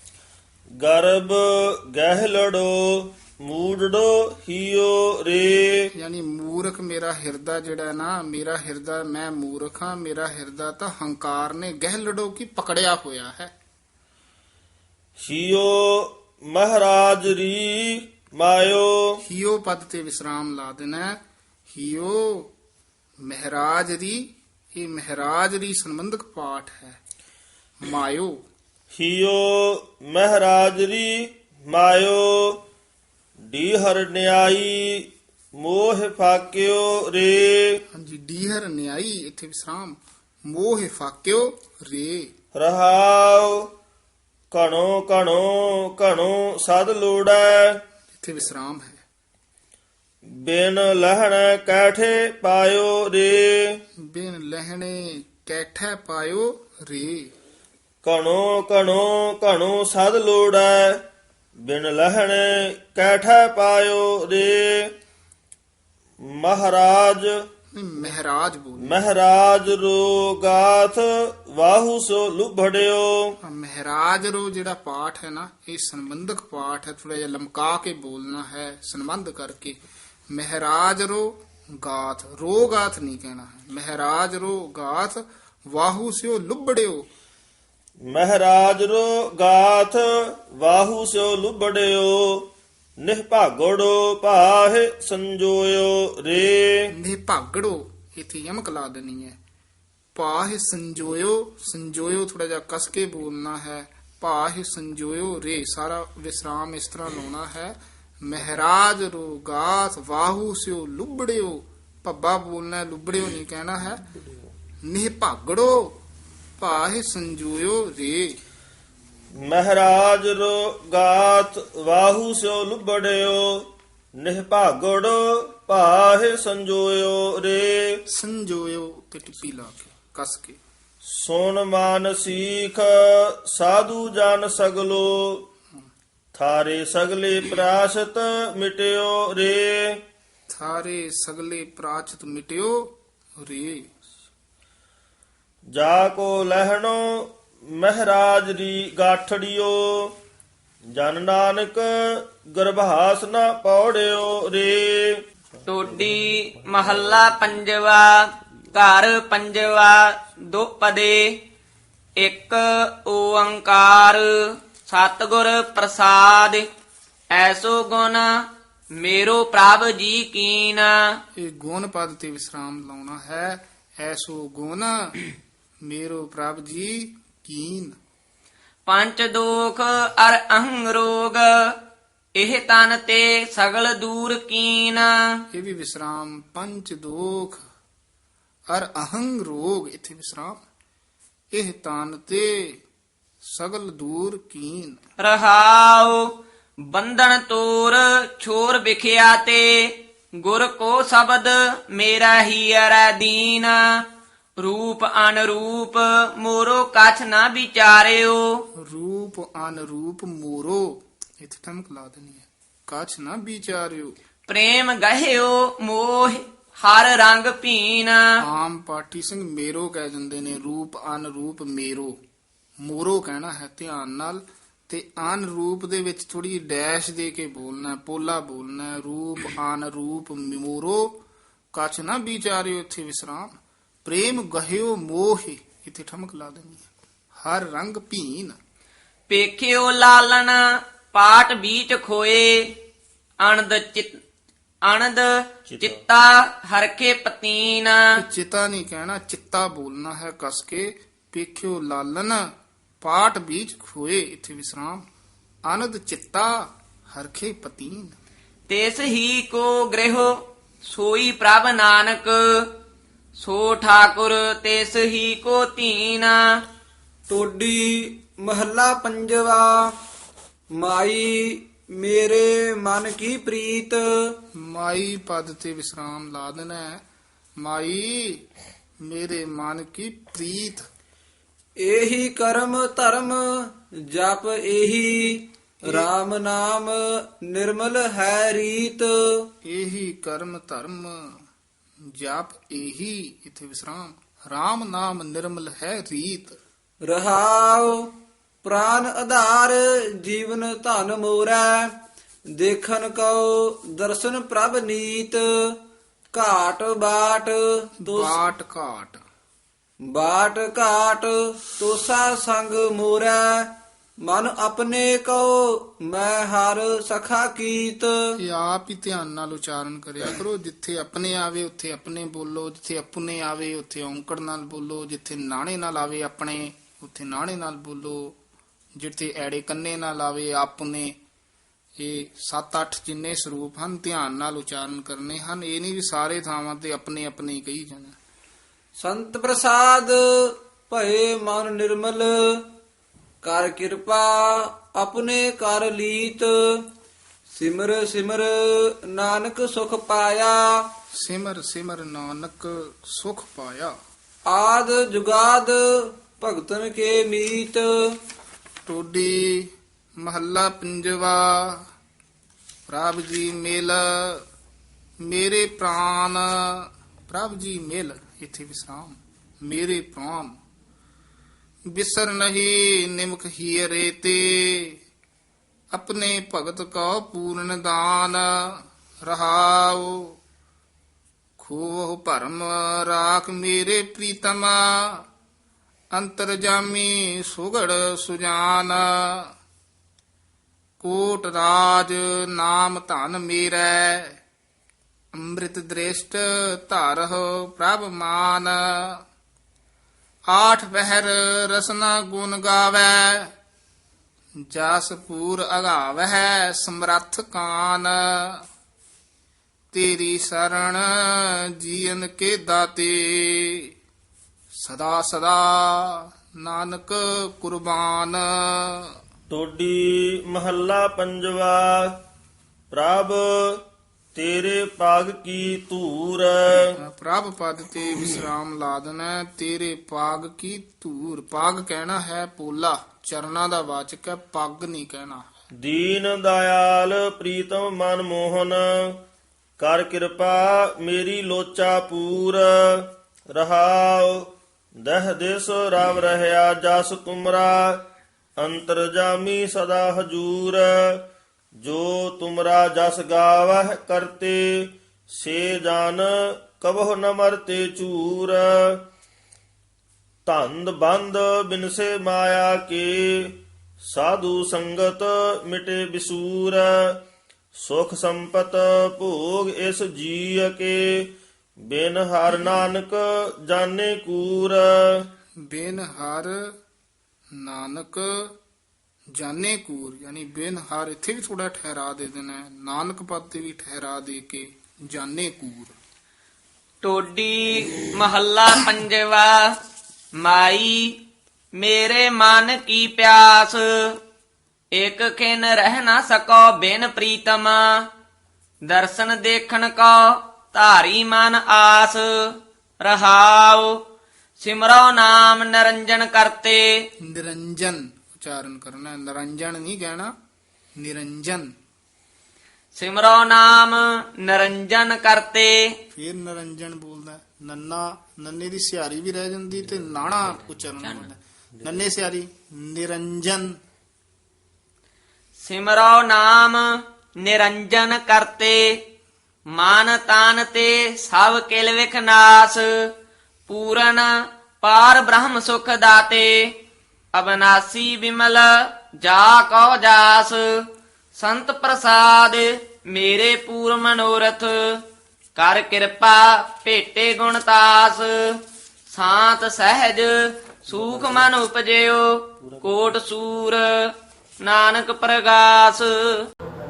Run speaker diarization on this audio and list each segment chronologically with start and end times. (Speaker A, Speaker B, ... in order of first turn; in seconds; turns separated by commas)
Speaker A: 0.8-5.8, Speaker B: 5.9-13.5, Speaker A: 15.2-19.0, Speaker B: 19.2-21.2, Speaker B: 21.7-22.5, Speaker B: 23.2-27.0, Speaker B: 27.8-28.4, Speaker A: 28.9-32.6, Speaker A: 33.5-37.8, Speaker B: 37.9-42.3, Speaker A: 42.5-43.6, Speaker A: 44.5-47.8, Speaker B: 48.2-49.0, Speaker A: 50.4-53.8, Speaker B: 54.0-57.3, Speaker A: 58.0-61.0, Speaker A: 61.6-64.9, Speaker A: 66.3-67.3, Speaker B: 67.7-69.0, Speaker A: 68.8-73.3, Speaker B: 73.4-79.8, Speaker B: 80.3-87.1, Speaker A: 88.1-92.5, Speaker A: 93.0-96.9, Speaker B: 96.9-99.4, Speaker B: 100.1-114.0, Speaker B: 114.8-116.0, Speaker B: 116.6-118.4, Speaker A: 119.4-123.7, Speaker A: 124.2-128.0, Speaker B: 128.1-130.6, Speaker A: 131.1-135.4, Speaker A: 136.3-140.0, Speaker B: 140.5-143.8, Speaker A: 145.7-150.1, Speaker A: 150.9-155.2, Speaker C: 155.7-161.3, Speaker A: 156.7-157.3, Speaker C: 162.2-166.6, Speaker C: 167.3-168.3, Speaker C: 169.0-171.0, Speaker B: 171.3-175.1, Speaker B: 175.8-177.9, Speaker C: 178.8-181.7, Speaker C: 182.4-185.1, Speaker B: 185.5-187.6, Speaker B: 188.7-190.6, Speaker B: 191.5-192.8, Speaker B: 193.4-195.0, Speaker C: 195.2-196.2, Speaker C: 196.9-203.8, Speaker C: 204.6-208.4, Speaker B: 208.8-214.1, Speaker C: 214.5-218.2, Speaker B: 218.4-222.2, Speaker B: 222.8-231.2, Speaker B: 231.7-233.5, Speaker B: 234.0-236.8, Speaker B: 237.4-238.6, Speaker C: 239.3-242.6, Speaker C: 243.4-244.1, Speaker C: 244.8-248.0, Speaker A: 245.7-245.9, Speaker B: 248.2-252.4, Speaker B: 253.0-255.1, Speaker B: 255.7-258.1, Speaker C: 258.7-262.4, Speaker C: 263.4-266.4, Speaker D: 267.3-269.8, Speaker D: 270.8-274.0, Speaker B: 274.6-277.0, Speaker B: 277.6-278.4, Speaker B: 279.0-280.9, Speaker D: 281.8-289.1, Speaker B: 289.6-291.4, Speaker B: 292.1-296.6, Speaker D: 297.0-298.1, Speaker D: 298.6-301.9, Speaker D: 302.6-305.8, Speaker D: 306.3-308.4, Speaker B: 308.0-309.2, Speaker D: 310.1-313.7, Speaker D: 314.2-318.1, Speaker B: 318.4-328.4, Speaker B: 328.9-331.1, Speaker B: 332.0-338.1, Speaker D: 339.0-342.6, Speaker D: 343.4-346.8, Speaker D: 347.5-350.8, Speaker B: 351.1-353.9, Speaker D: 354.5-357.9, Speaker B: 358.9-361.9, Speaker B: 362.9-364.4, Speaker B: 365.2-370.6, Speaker B: 371.9-375.0, Speaker B: 375.9-380.4, Speaker B: 381.6-385.2, Speaker B: 386.1-389.5, Speaker B: 391.0-394.4, Speaker B: 395.3-399.2, Speaker B: 400.5-403.5, Speaker B: 404.6-408.6, Speaker B: 409.9-413.9, Speaker B: 414.7-419.1, Speaker A: 419.5-422.1, Speaker A: 422.9-423.8, Speaker A: 424.3-426.9, Speaker B: 426.9-435.5, Speaker A: 435.8-439.2, Speaker A: 439.8-448.0, Speaker A: 448.6-451.2, Speaker A: 451.8-459.0, Speaker A: 460.4-467.2, Speaker A: 467.7-471.3, Speaker A: 471.9-475.2, Speaker B: 475.6-476.7, Speaker B: 477.6-478.5, Speaker B: 479.4-485.9, Speaker C: 487.0-489.7, Speaker C: 490.4-491.1, Speaker C: 491.8-493.8, Speaker C: 494.9-498.0, Speaker C: 498.9-502.3, Speaker C: 503.0-503.9, Speaker C: 504.6-506.9, Speaker B: 507.2-510.3, Speaker B: 511.0-511.7, Speaker C: 512.9-515.8, Speaker B: 516.1-523.8, Speaker C: 525.6-526.8, Speaker C: 527.4-529.0, Speaker C: 529.7-532.9, Speaker C: 533.7-536.7, Speaker C: 537.3-540.8, Speaker C: 541.3-545.0, Speaker C: 545.5-548.4, Speaker C: 549.1-554.0, Speaker C: 554.6-556.4